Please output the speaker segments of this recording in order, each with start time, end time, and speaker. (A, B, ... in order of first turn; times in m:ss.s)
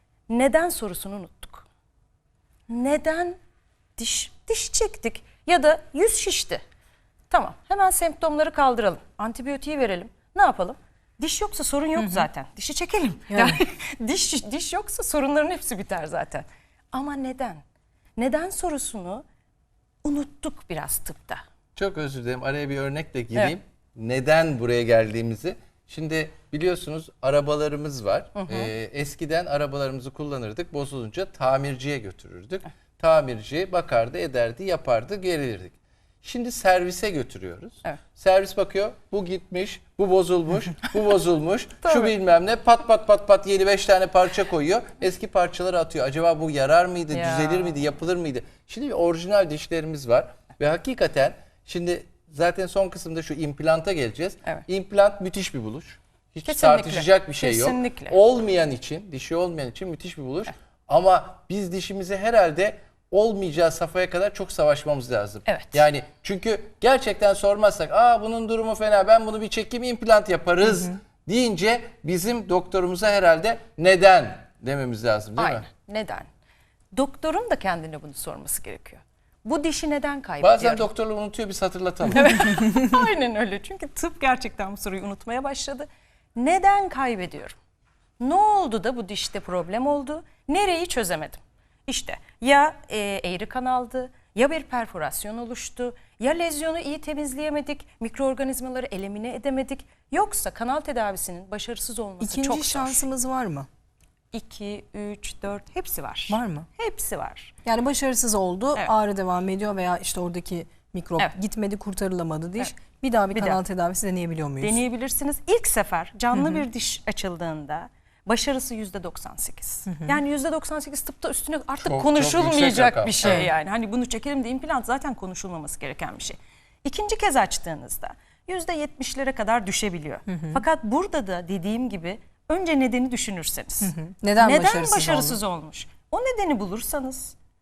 0:00.3-0:01.7 A
0:02.7-0:03.4 A
0:04.0-0:06.6 A
0:07.3-0:17.6 A
0:12.0-0:12.3 B
0:13.3-0:13.6 B
0:18.2-0:19.2 A
0:20.0-0:21.4 A
0:21.8-1:15.7 C
0:28.4-0:28.7 A
0:41.8-0:42.1 A
0:47.1-0:47.8 A
0:56.4-0:58.2 A
1:05.4-1:05.8 A
1:15.4-1:16.3 A
1:16.9-1:20.9 A
1:20.4-1:22.8 C
1:22.1-1:27.6 A
1:28.2-1:43.0 A
1:42.2-1:43.7 B
1:44.3-1:47.5 A
1:46.3-1:46.7 B
1:47.6-1:54.8 B
1:53.3-1:53.6 A
1:54.6-2:17.4 A
1:56.3-1:56.6 B
2:01.8-2:03.5 C
2:10.3-2:10.6 B
2:13.8-2:15.4 B